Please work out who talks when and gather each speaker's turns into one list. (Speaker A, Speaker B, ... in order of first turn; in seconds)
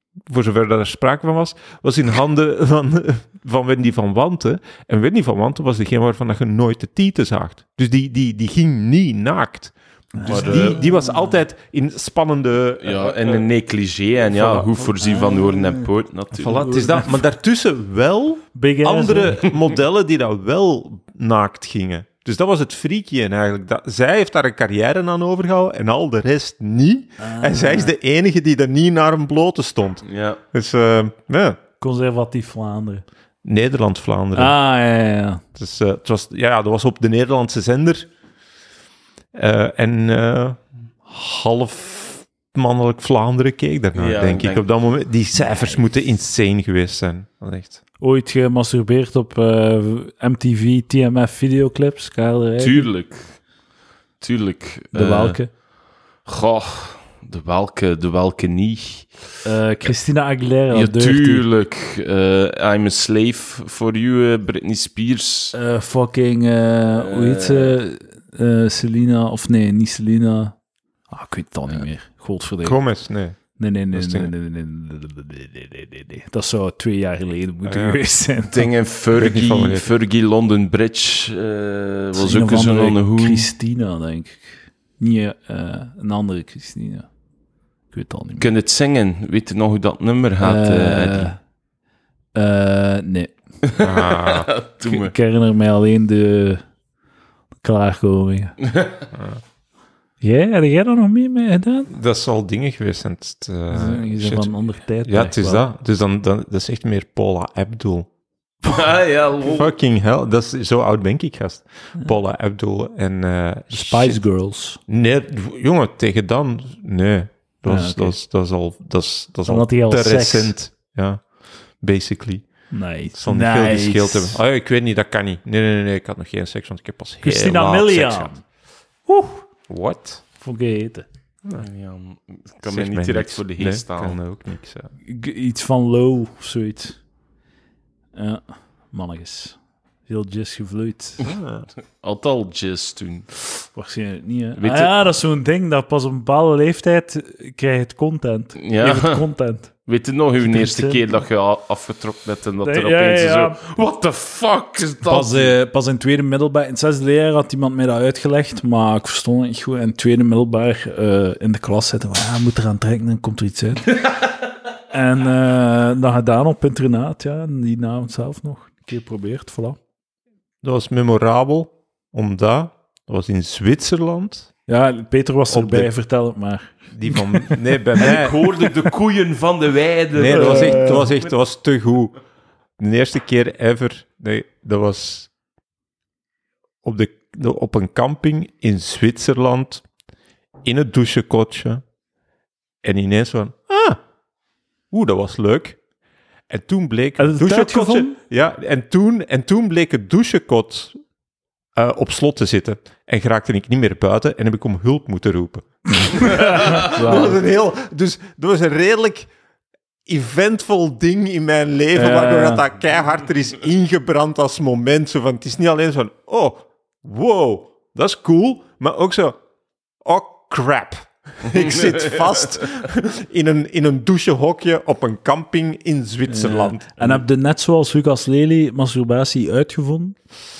Speaker A: 0.3-13.4, 14.2-14.9, 16.3-31.6, 33.4-34.5, 35.5-38.1, 39.3-47.8, 72.6-73.4, 73.9-74.3, 77.6-78.0, 79.1-79.9, 93.8-94.5, 99.1-99.4, 101.9-104.5, 105.0-108.1, 109.4-114.2, 114.9-121.2, 121.8-122.5, 123.2-128.3, 129.7-130.2, 132.6-134.9, 141.2-141.7, 170.6-174.5, 175.5-175.9, 176.9-178.4, 180.1-182.1, 182.8-185.3, 186.8-189.8, 190.6-191.8, 192.8-194.0, 194.9-195.8, 196.5-200.9, 201.8-209.3, 210.1-219.4, 220.0-227.2
Speaker B: 10.2-11.2, 15.0-15.9, 16.6-17.1, 18.5-19.5, 27.2-27.9, 31.8-33.0, 34.3-35.4, 48.0-52.9, 54.9-55.5, 59.4-61.4, 65.5-70.5, 71.1-72.8, 73.6-78.7, 82.1-87.0, 87.9-88.5, 90.4-91.4, 92.3-93.3, 94.8-96.6, 97.6-98.5, 100.2-101.9, 103.7-105.6, 113.7-114.8, 117.7-118.1, 119.5-120.5, 122.7-124.4, 127.2-128.4, 129.1-129.4, 130.4-131.1, 135.1-137.0, 138.1-141.2, 143.7-149.7, 150.4-151.2, 152.6-153.6, 155.1-164.2, 164.9-169.8, 174.7-177.6, 180.3-181.1, 197.2-198.2, 206.1-207.0, 211.9-212.6, 226.3-230.2
Speaker C: 10.2-10.8, 12.8-16.9, 30.0-30.4, 43.9-44.6, 52.6-53.4, 54.2-55.4, 56.2-59.2, 60.7-65.5, 66.9-67.8, 78.5-83.5, 88.4-91.3, 93.6-95.1, 98.6-99.0, 108.6-109.7, 131.5-134.2, 141.8-143.3, 144.6-144.9, 148.6-149.2, 149.8-155.5, 178.0-181.0, 206.6-207.4, 221.5-222.2